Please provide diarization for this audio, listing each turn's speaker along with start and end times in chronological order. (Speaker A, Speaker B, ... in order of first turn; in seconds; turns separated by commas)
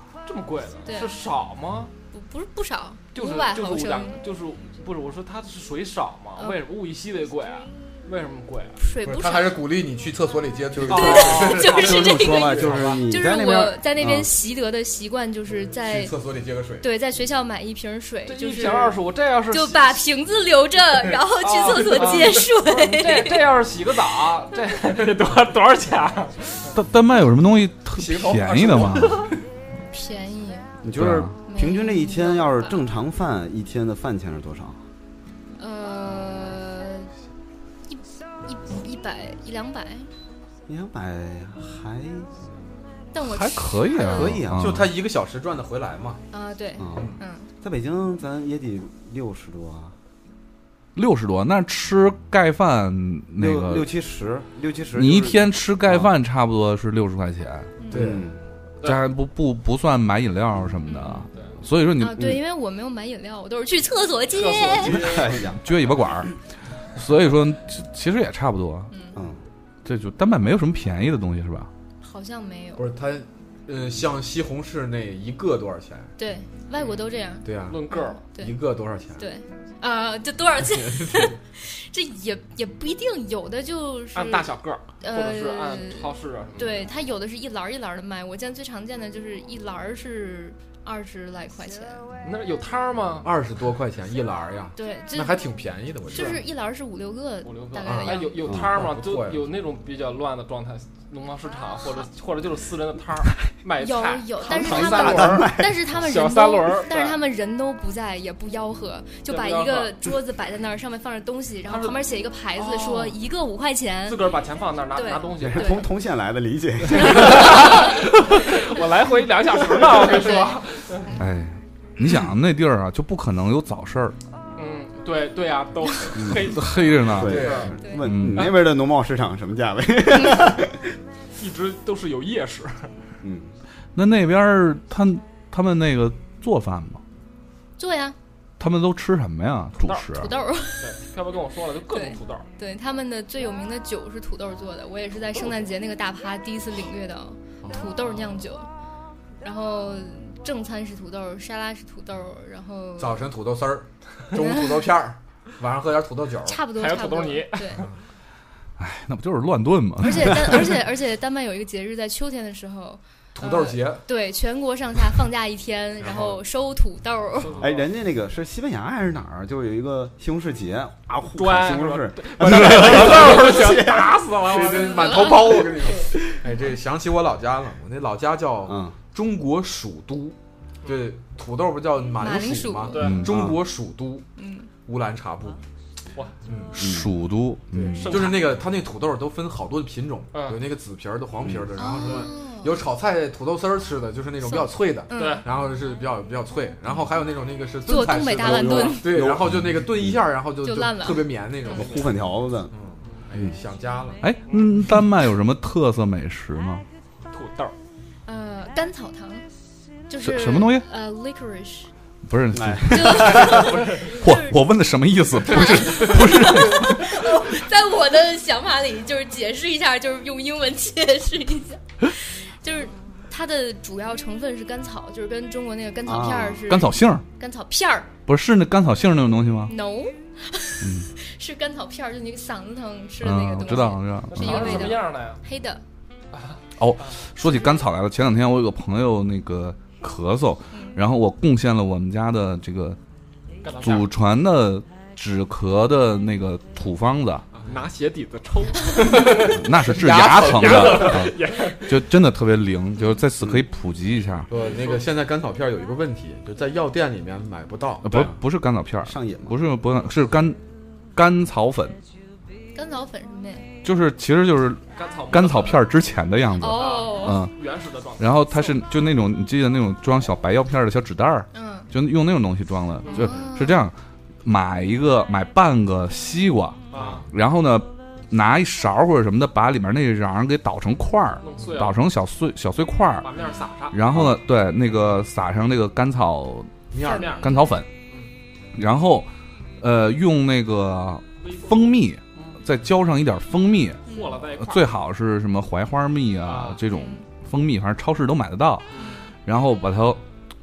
Speaker A: 0.2-1.9, Speaker B: 0.8-1.2, Speaker B: 2.1-4.2, Speaker A: 3.1-8.8, Speaker B: 8.8-9.6, Speaker C: 9.0-13.0, Speaker D: 10.7-14.3, Speaker A: 10.9-11.7, Speaker B: 10.9-16.1, Speaker C: 15.8-16.9, Speaker B: 16.8-19.0, Speaker A: 18.3-20.0, Speaker B: 19.5-23.5, Speaker A: 21.4-26.7, Speaker E: 26.7-29.2, Speaker C: 27.9-29.4, Speaker B: 29.9-30.7, Speaker D: 30.8-34.8, Speaker E: 30.9-31.3, Speaker B: 31.5-32.8, Speaker B: 35.6-37.1, Speaker B: 37.9-40.1, Speaker D: 40.7-42.3, Speaker B: 43.1-44.4, Speaker E: 43.2-44.9, Speaker D: 44.0-44.9, Speaker C: 44.5-46.2, Speaker B: 46.3-47.5, Speaker D: 46.8-49.9, Speaker C: 46.9-47.2, Speaker E: 50.9-53.9, Speaker D: 53.4-56.1, Speaker E: 55.0-57.7, Speaker B: 57.8-58.1, Speaker C: 57.9-58.3, Speaker D: 57.9-58.4, Speaker E: 58.8-62.4, Speaker B: 60.9-61.3, Speaker B: 62.0-65.1, Speaker A: 64.3-65.4, Speaker D: 64.9-65.6, Speaker C: 65.0-65.5, Speaker E: 65.6-66.3, Speaker E: 67.0-68.9, Speaker B: 68.9-69.2, Speaker E: 69.8-71.7, Speaker B: 72.0-72.9, Speaker C: 72.8-76.1, Speaker B: 76.2-78.6, Speaker C: 77.4-77.8, Speaker A: 77.7-78.2, Speaker C: 78.3-79.2, Speaker B: 79.2-84.5, Speaker C: 80.7-81.3, Speaker A: 84.1-86.9, Speaker B: 85.0-92.0, Speaker A: 92.2-93.3, Speaker C: 93.2-96.4, Speaker B: 94.7-95.5, Speaker B: 96.1-98.4, Speaker A: 96.1-96.4, Speaker A: 97.4-107.2, Speaker C: 98.0-99.5, Speaker B: 101.8-102.1, Speaker B: 103.8-114.3, Speaker D: 104.5-105.8, Speaker A: 109.3-110.0, Speaker A: 111.7-112.0, Speaker A: 112.6-113.2, Speaker A: 114.0-115.8, Speaker B: 114.9-115.9, Speaker D: 115.4-117.8, Speaker B: 117.0-118.8, Speaker A: 117.0-121.1, Speaker B: 119.7-120.7, Speaker E: 121.2-124.1, Speaker A: 124.6-127.7, Speaker D: 126.2-126.6, Speaker E: 126.3-128.6, Speaker D: 127.1-130.9, Speaker C: 127.2-127.8, Speaker B: 127.7-128.1, Speaker B: 130.1-130.4, Speaker A: 131.4-132.9, Speaker D: 133.2-133.5, Speaker E: 133.9-137.0, Speaker B: 137.8-138.2, Speaker E: 138.6-140.3, Speaker B: 140.1-140.9, Speaker A: 140.8-142.5, Speaker B: 141.9-148.7, Speaker C: 147.6-147.9, Speaker B: 149.4-153.3, Speaker C: 153.0-156.6, Speaker B: 154.4-154.9, Speaker B: 156.4-157.9, Speaker A: 156.7-157.9, Speaker E: 158.8-160.7, Speaker B: 160.0-167.6, Speaker C: 163.3-164.0, Speaker A: 167.4-167.9, Speaker D: 167.6-174.2, Speaker A: 171.3-175.6, Speaker E: 172.4-172.9, Speaker C: 173.1-173.4, Speaker C: 174.3-184.2, Speaker B: 174.6-175.6, Speaker D: 178.7-178.9, Speaker B: 182.2-183.2, Speaker A: 182.9-183.3, Speaker E: 183.0-183.5, Speaker B: 184.4-184.7, Speaker C: 184.8-185.6, Speaker C: 186.5-186.8, Speaker E: 186.7-188.3, Speaker D: 186.8-187.1, Speaker C: 187.7-202.2, Speaker A: 187.9-188.6, Speaker A: 190.3-190.6, Speaker D: 191.4-191.7, Speaker B: 191.7-192.8, Speaker B: 194.4-195.4, Speaker A: 195.1-195.4, Speaker B: 197.8-199.1, Speaker D: 198.4-200.2, Speaker B: 200.6-201.8, Speaker D: 201.7-202.7, Speaker A: 201.8-202.1, Speaker C: 202.7-204.2, Speaker E: 204.2-206.8, Speaker A: 204.5-204.8, Speaker A: 207.3-207.7, Speaker B: 208.2-209.4, Speaker B: 210.1-211.9, Speaker E: 210.2-210.9, Speaker E: 212.2-217.2, Speaker D: 212.5-213.8, Speaker B: 212.9-214.6, Speaker B: 215.5-228.1, Speaker D: 226.1-226.7, Speaker E: 226.7-227.2, Speaker E: 228.2-229.7, Speaker B: 229.7-235.8, Speaker E: 230.8-231.1, Speaker E: 233.2-235.0, Speaker A: 234.3-235.4, Speaker A: 236.3-237.1, Speaker E: 236.8-243.0, Speaker B: 237.4-237.8, Speaker B: 240.7-241.0, Speaker A: 243.6-244.1, Speaker E: 243.8-247.4, Speaker A: 247.6-252.0, Speaker C: 249.1-251.3, Speaker E: 249.4-254.5, Speaker C: 254.5-258.3, Speaker A: 254.5-255.1, Speaker E: 258.0-260.6, Speaker D: 259.0-259.6, Speaker E: 261.1-262.0, Speaker B: 262.7-263.7, Speaker E: 263.8-267.5, Speaker A: 264.9-265.8, Speaker B: 266.6-267.4, Speaker A: 266.7-268.3, Speaker E: 268.2-283.3, Speaker B: 271.5-271.9, Speaker A: 273.0-273.3, Speaker B: 273.1-273.9, Speaker C: 273.1-273.4, Speaker A: 276.9-277.2, Speaker C: 276.9-277.2, Speaker A: 281.4-282.0, Speaker A: 283.2-284.0, Speaker E: 283.9-286.7, Speaker C: 286.9-287.5, Speaker A: 287.0-287.4, Speaker B: 287.0-287.8, Speaker E: 287.3-287.9, Speaker E: 288.7-294.0, Speaker A: 291.4-291.8, Speaker B: 294.1-294.4, Speaker A: 294.1-294.9, Speaker E: 294.6-298.9, Speaker A: 296.4-296.8, Speaker B: 296.9-297.2, Speaker E: 299.4-300.2